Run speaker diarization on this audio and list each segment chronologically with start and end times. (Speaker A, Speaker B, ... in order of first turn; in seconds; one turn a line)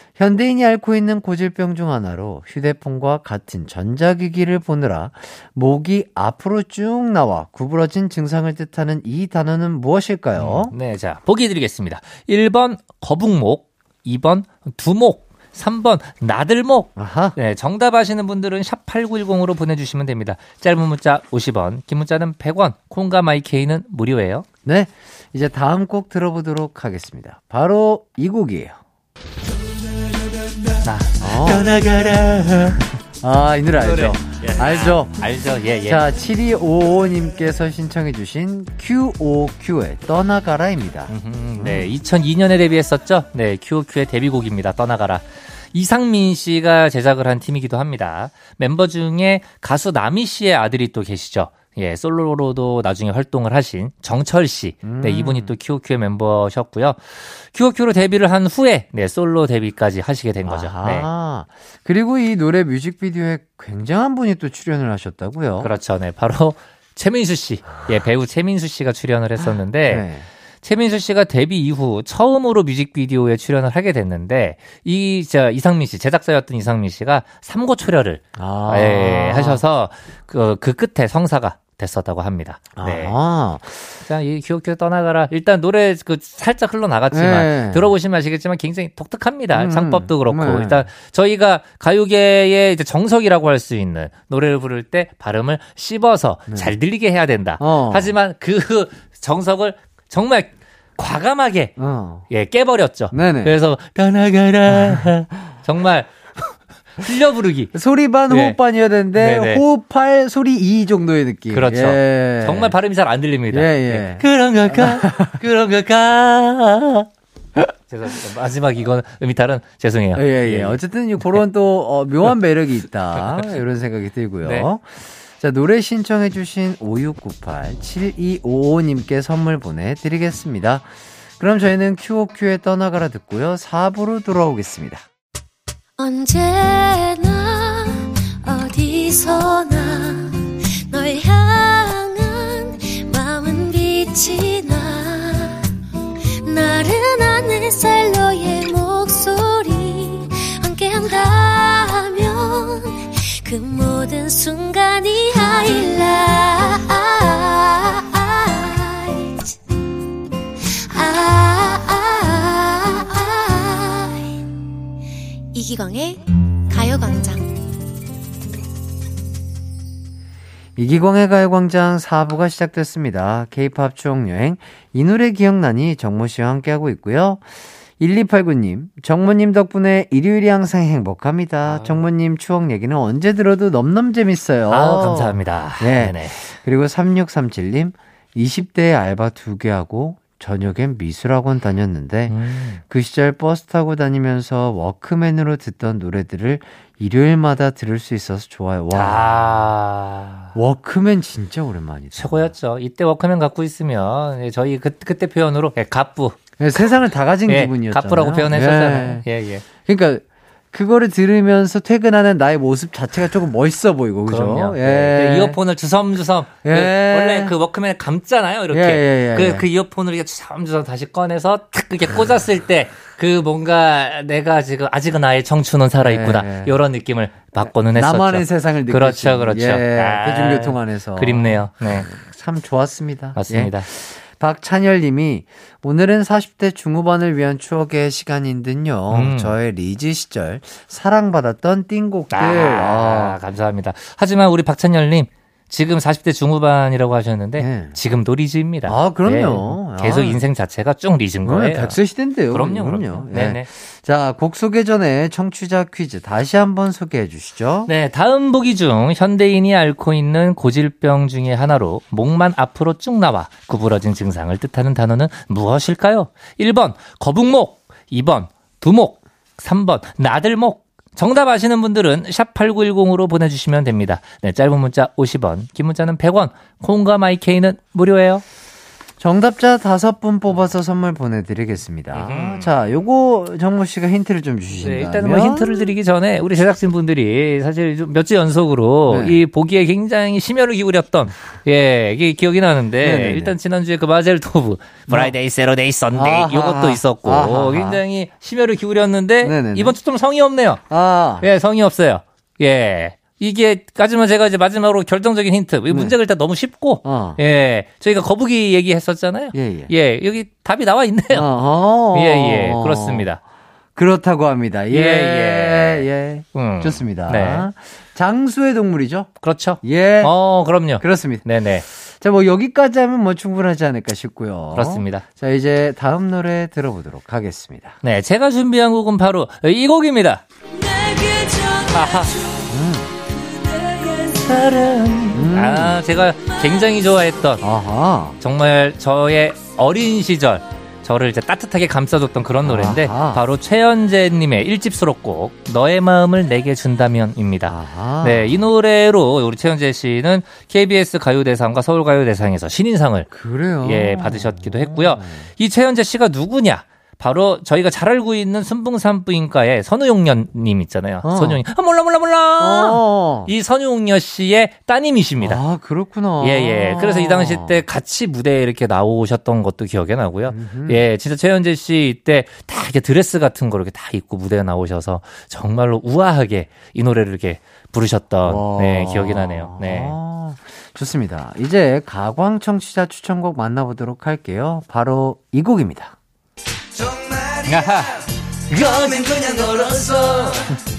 Speaker A: 0.1-10.7
Speaker B: 10.3-24.4
Speaker A: 16.9-17.4
Speaker A: 24.6-28.8
Speaker B: 30.8-32.8
Speaker A: 31.2-31.7
Speaker A: 33.2-35.2
Speaker B: 33.7-36.0
Speaker A: 35.8-41.9
Speaker B: 41.1-61.1
Speaker A: 54.8-55.5
Speaker A: 60.4-65.7
Speaker B: 65.6-70.1
Speaker A: 69.9-70.3
Speaker B: 70.6-83.1
Speaker A: 78.4-79.6
Speaker A: 82.8-84.0
Speaker B: 84.0-101.8
Speaker A: 87.1-87.9
Speaker A: 89.5-90.9
Speaker A: 97.6-98.1
Speaker A: 101.8-102.3
Speaker B: 102.3-107.7
Speaker A: 103.1-103.5
Speaker A: 104.8-105.1
Speaker A: 107.7-112.7
Speaker B: 108.3-108.6
Speaker B: 109.1-109.6
Speaker B: 111.5-117.1
Speaker A: 113.5-115.4
Speaker B: 117.9-121.4
Speaker A: 120.2-135.0
Speaker B: 123.2-123.6
Speaker B: 124.4-124.7
Speaker C: 136.0-145.6
Speaker C: 146.4-159.6
Speaker C: 160.9-164.3
Speaker C: 165.5-167.5
Speaker A: 170.8-177.5
Speaker A: 178.0-199.5
Speaker B: 181.6-182.0
Speaker B: 184.7-186.4
Speaker B: 192.3-192.8
Speaker B: 198.9-200.5
Speaker A: 200.5-202.5
Speaker B: 202.1-207.0
Speaker A: 206.6-209.2
Speaker B: 207.5-209.7
Speaker A: 209.8-215.6
Speaker B: 214.3-232.1
Speaker A: 216.6-217.5
Speaker A: 218.7-219.7
Speaker A: 226.0-226.8
Speaker A: 227.8-243.4
Speaker B: 233.3-233.9
Speaker B: 239.1-239.5
Speaker B: 242.3-252.0
Speaker A: 247.6-248.0
Speaker A: 248.8-250.4
Speaker A: 251.4-257.9
Speaker B: 252.5-253.7
Speaker B: 257.9-278.4
Speaker A: 279.2-285.9
Speaker B: 282.1-282.7
Speaker B: 284.8-300.8
Speaker A: 289.1-289.4
Speaker A: 293.0-293.6
Speaker A: 296.1-298.0
Speaker A: 299.4-300.0
Speaker A: 300.9-301.5
Speaker B: 301.4-311.5
Speaker A: 307.0-307.4
Speaker A: 309.5-309.9
Speaker A: 311.3-313.2
Speaker B: 312.1-313.4
Speaker A: 314.0-319.3
Speaker B: 314.9-317.7
Speaker B: 319.4-321.9
Speaker A: 319.8-320.3
Speaker A: 321.0-328.0
Speaker B: 324.7-325.2
Speaker B: 328.0-330.4
Speaker C: 330.7-332.6
Speaker B: 331.9-332.4
Speaker A: 332.7-333.1
Speaker B: 333.7-337.6
Speaker A: 335.3-336.0
Speaker A: 337.6-338.4
Speaker B: 338.4-353.3
Speaker A: 342.6-343.4
Speaker A: 347.6-348.6
Speaker A: 353.3-355.5
Speaker B: 353.8-365.6
Speaker A: 361.2-361.6
Speaker A: 362.6-363.5
Speaker A: 365.4-367.8
Speaker B: 366.4-380.1
Speaker A: 370.5-371.0
Speaker A: 378.4-386.1
Speaker B: 387.6-390.7